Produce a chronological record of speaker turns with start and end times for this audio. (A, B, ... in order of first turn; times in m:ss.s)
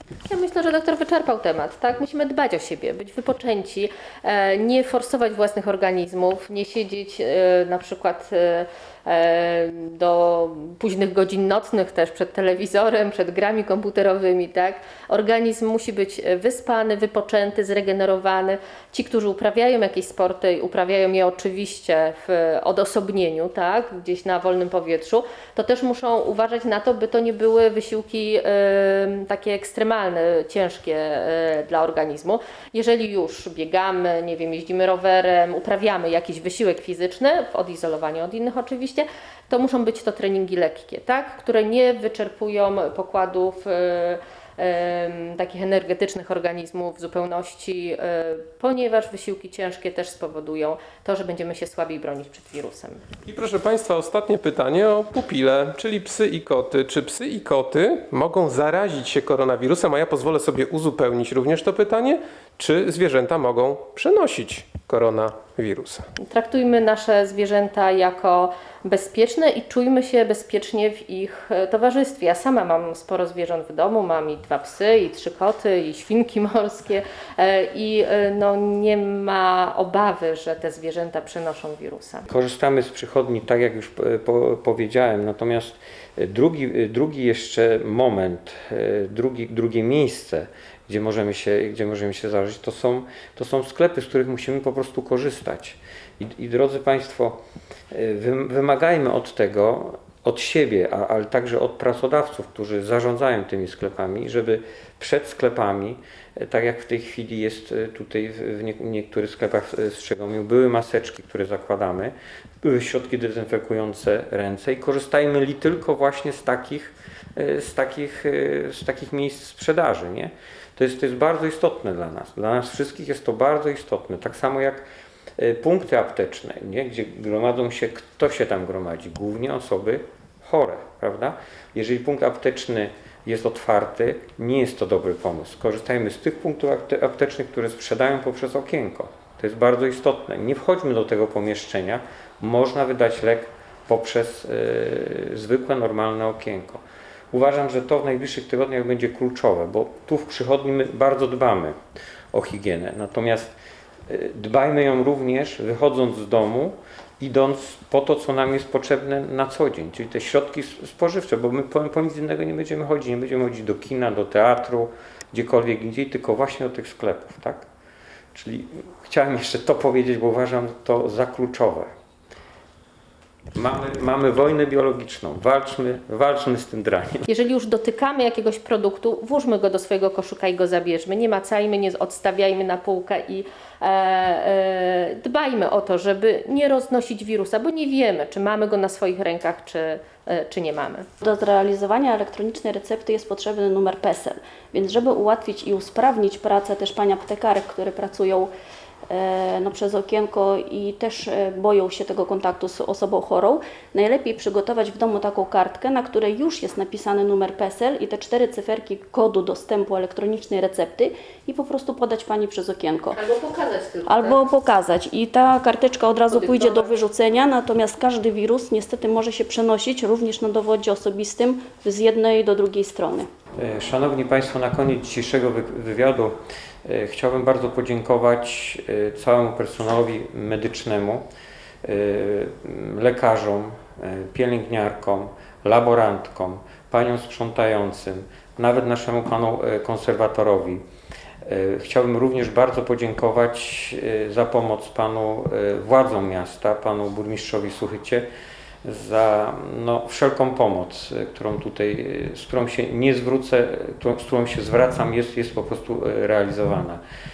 0:00.3-0:53.0 A
0:53.2-1:06.0 B
1:06.2-1:22.3 A
1:22.3-2:04.8 C
2:05.4-2:31.7 C
2:32.3-2:33.5 C
2:34.1-2:47.6 C
2:48.3-2:51.9 C
2:53.5-2:57.2 C
2:57.3-3:11.0 A
3:11.2-3:18.5 D
3:19.1-3:33.2 D
3:33.1-3:34.4 A
3:34.0-3:43.3 D
3:36.4-3:36.8 A
3:43.6-3:51.2 C
3:51.8-4:00.8 C
4:01.4-4:08.3 C
4:08.8-4:17.0 C